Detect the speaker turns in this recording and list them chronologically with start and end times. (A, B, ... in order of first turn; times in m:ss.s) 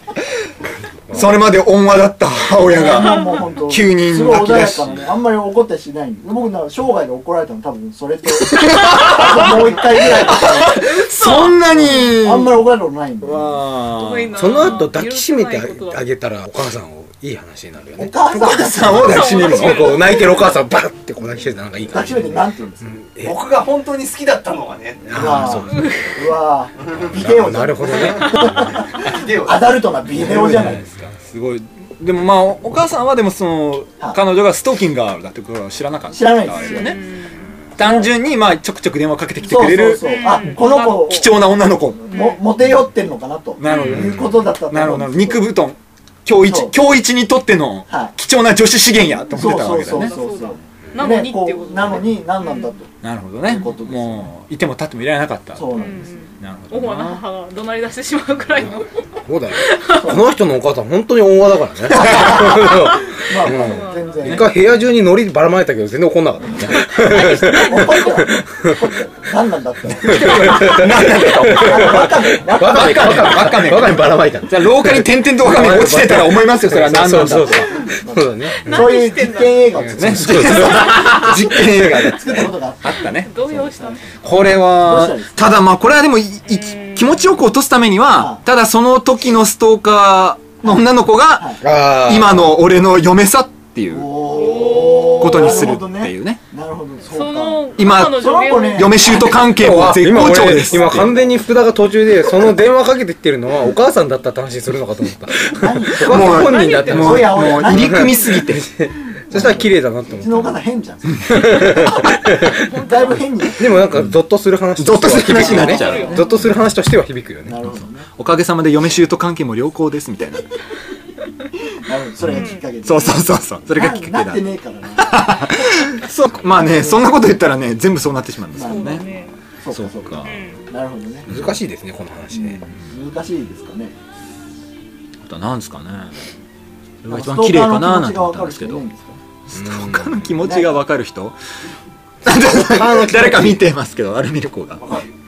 0:01.1-0:05.1 A
0:02.7-0:10.8 B
0:02.9-0:03.2 C
0:08.4-0:12.6 A
0:11.0-0:12.0 C
0:11.6-0:13.6 B
0:13.2-0:14.8 A
0:13.9-0:16.0 C
0:14.4-0:23.3 D
0:18.0-0:19.2 B
0:18.3-0:20.2 A
0:19.0-0:20.3 C
0:21.9-0:23.0 B
0:23.2-0:25.4 E
0:25.1-0:26.0 D
0:25.1-0:30.8 B
0:25.7-0:26.1 C
0:26.8-0:27.1 E
0:27.0-0:28.8 D
0:29.0-0:29.8 E
0:30.1-0:37.0 A
0:36.1-0:36.9 B
0:36.5-0:37.5 C
0:37.8-0:42.0 A
0:37.8-0:38.1 B
0:39.4-0:41.3 B
0:40.0-0:41.1 C
0:42.0-0:45.5 B
0:42.1-0:42.4 C
0:43.6-0:50.1 A
0:43.7-0:44.1 C
0:43.9-0:44.2 D
0:46.4-0:46.7 B
0:47.9-0:48.1 B
0:49.1-0:52.9 B
0:49.9-0:52.7 C
0:53.0-0:55.8 A
0:53.5-0:54.3 B
0:55.6-0:56.2 B
0:55.7-1:00.2 C
0:56.4-0:57.2 A
0:59.3-1:08.8 D
0:59.9-1:00.2 B
1:01.9-1:04.5 B
1:02.9-1:04.2 C
1:06.8-1:10.8 B
1:10.0-1:18.9 D
1:10.1-1:17.7 A
1:11.5-1:13.5 B
1:17.8-1:24.0 B
1:18.6-1:19.9 C
1:19.8-1:22.1 D
1:19.9-1:23.3 A
1:20.7-1:21.1 C
1:23.1-1:24.1 C
1:24.2-1:34.1 A
1:24.8-1:25.4 B
1:26.5-1:27.3 C
1:28.2-1:28.4 B
1:30.6-1:31.6 B
1:31.6-1:32.6 D
1:33.9-1:39.5 B
1:34.3-1:35.6 C
1:35.2-1:36.4 A
1:37.0-1:39.4 C
1:37.8-1:41.1 A
1:39.4-1:50.6 D
1:40.1-1:41.4 B
1:45.5-1:48.4 B
1:46.0-1:48.7 A
1:46.2-1:47.5 C
1:49.3-1:52.0 B
1:49.3-1:49.6 A
1:51.3-1:52.6 D
1:52.6-1:53.4 C
1:52.8-1:53.9 B
1:53.6-1:57.6 D
1:53.9-1:54.2 A
1:54.8-1:56.6 A
1:55.4-1:56.4 B
1:55.4-1:56.3 C
1:57.4-1:58.1 B
1:58.2-2:00.4 A
2:01.8-2:05.5 B
2:02.2-2:09.0 A
2:02.3-2:02.6 C
2:06.5-2:07.1 B
2:08.5-2:09.1 B
2:08.6-2:09.3 C
2:09.6-2:11.3 B
2:09.7-2:10.4 A
2:10.2-2:10.6 C
2:11.3-2:11.6 A
2:11.3-2:12.6 D
2:12.3-2:13.9 B
2:15.2-2:16.2 A
2:17.0-2:18.9 A
2:17.1-2:19.2 B
2:19.5-2:21.4 A
2:19.5-2:20.3 D
2:20.4-2:20.8 B
2:22.2-2:25.0 A
2:22.4-2:23.6 D
2:24.8-2:25.1 E